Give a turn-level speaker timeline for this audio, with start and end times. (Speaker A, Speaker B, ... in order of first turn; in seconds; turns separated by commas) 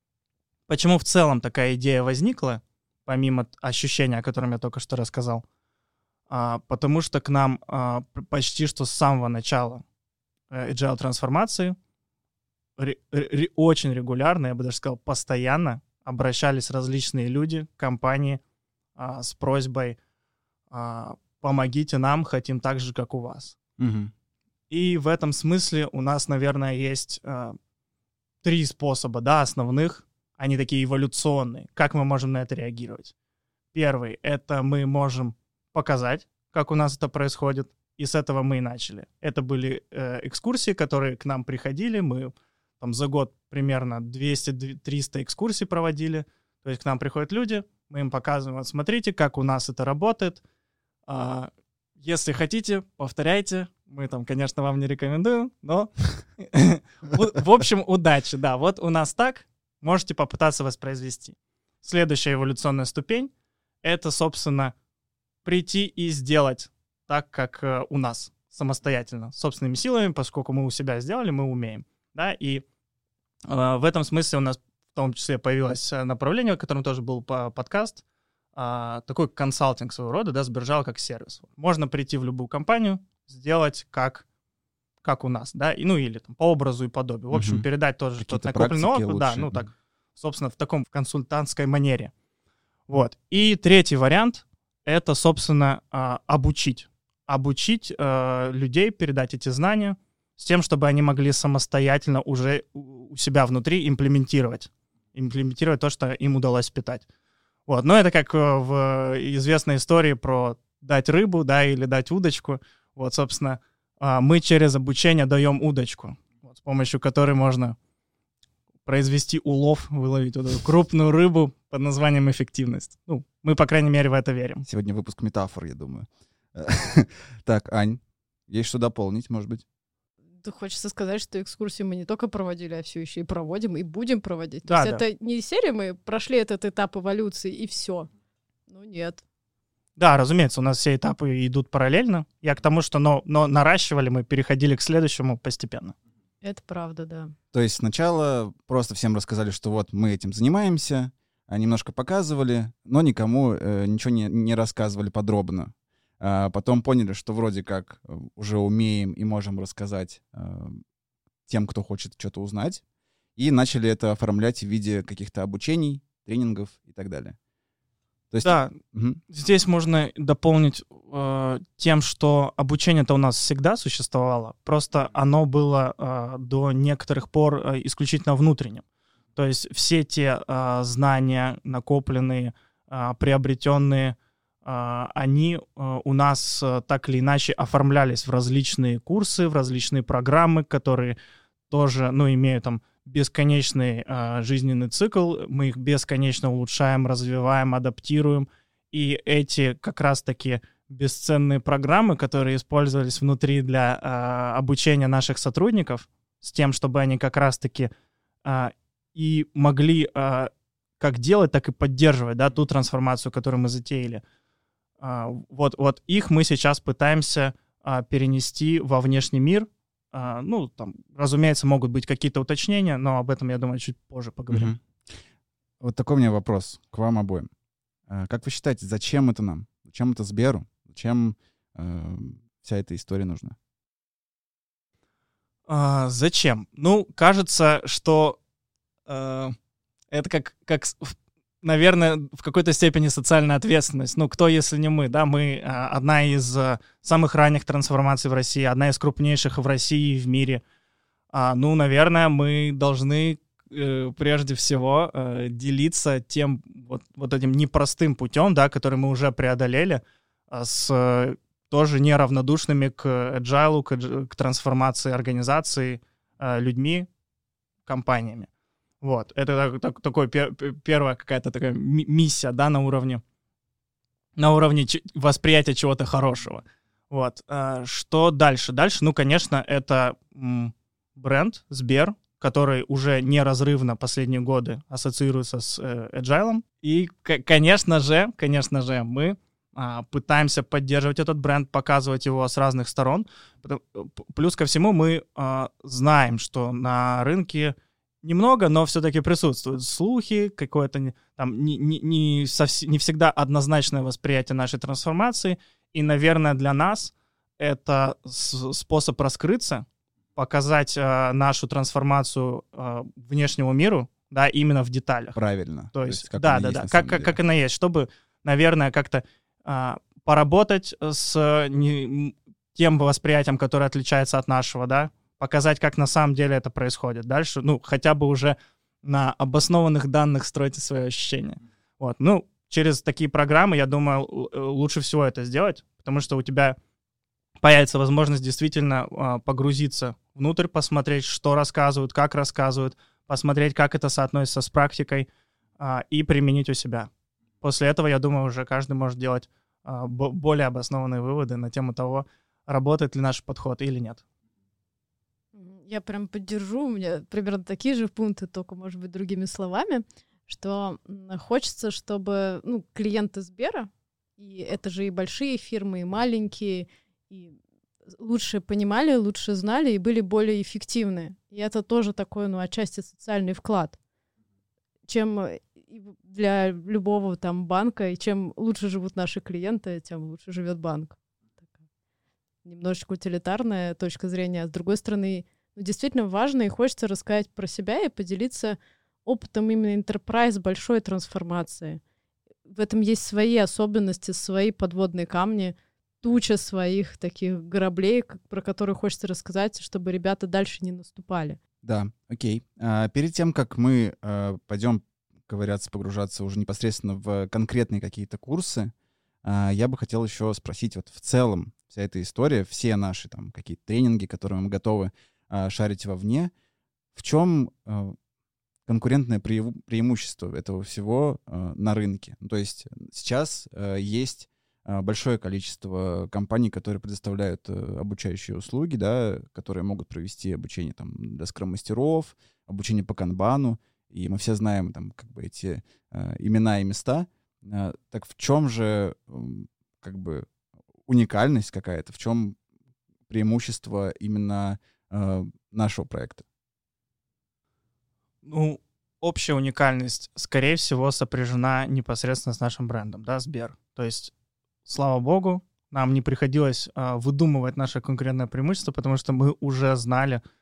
Speaker A: 0.7-5.4, Speaker A: 6.3-9.8, Speaker A: 10.5-11.8, Speaker A: 12.8-18.4, Speaker A: 19.0-20.0, Speaker A: 20.7-23.6, Speaker B: 23.8-24.1, Speaker A: 24.7-27.6, Speaker A: 28.4-33.1, Speaker A: 33.7-50.4, Speaker A: 51.1-63.3, Speaker A: 63.8-64.7, Speaker A: 65.5-72.7, Speaker A: 73.5-78.0, Speaker A: 78.5-84.2, Speaker A: 85.0-92.1, Speaker B: 87.3-87.7, Speaker B: 88.2-89.7, Speaker A: 92.9-107.1, Speaker A: 107.7-117.8, Speaker A: 118.8-124.7, Speaker B: 124.6-129.7, Speaker C: 130.4-138.1, Speaker A: 134.7-135.0, Speaker C: 138.7-139.2, Speaker A: 140.0-145.9, Speaker C: 146.4-147.3, Speaker B: 147.5-160.8, Speaker B: 161.5-162.8, Speaker B: 163.4-167.4, Speaker B: 168.3-169.2, Speaker A: 168.4-168.8, Speaker A: 169.3-178.8, Speaker A: 179.3-191.2, Speaker A: 191.7-207.9, Speaker A: 208.4-214.2, Speaker A: 215.0-224.7, Speaker B: 224.5-224.8, Speaker B: 225.8-227.5, Speaker B: 228.1-233.6, Speaker A: 235.7-238.4, Speaker A: 239.1-239.6, Speaker A: 240.1-250.6, Speaker A: 251.3-267.1, Speaker A: 267.9-268.5, Speaker A: 269.0-273.2, Speaker A: 274.4-309.9, Speaker A: 310.4-315.4, Speaker B: 315.4-317.4, Speaker A: 315.9-336.8, Speaker A: 337.6-345.3, Speaker A: 345.8-347.1, Speaker A: 347.6-354.2, Speaker C: 355.5-367.6, Speaker C: 368.1-374.0, Speaker C: 375.1-381.2, Speaker C: 382.6-392.0, Speaker C: 392.7-401.6, Speaker B: 401.8-408.9, Speaker B: 409.4-416.5, Speaker B: 417.1-418.2, Speaker B: 418.9-440.5, Speaker B: 441.1-442.6, Speaker B: 443.3-446.4, Speaker A: 448.4-454.3, Speaker A: 454.9-460.4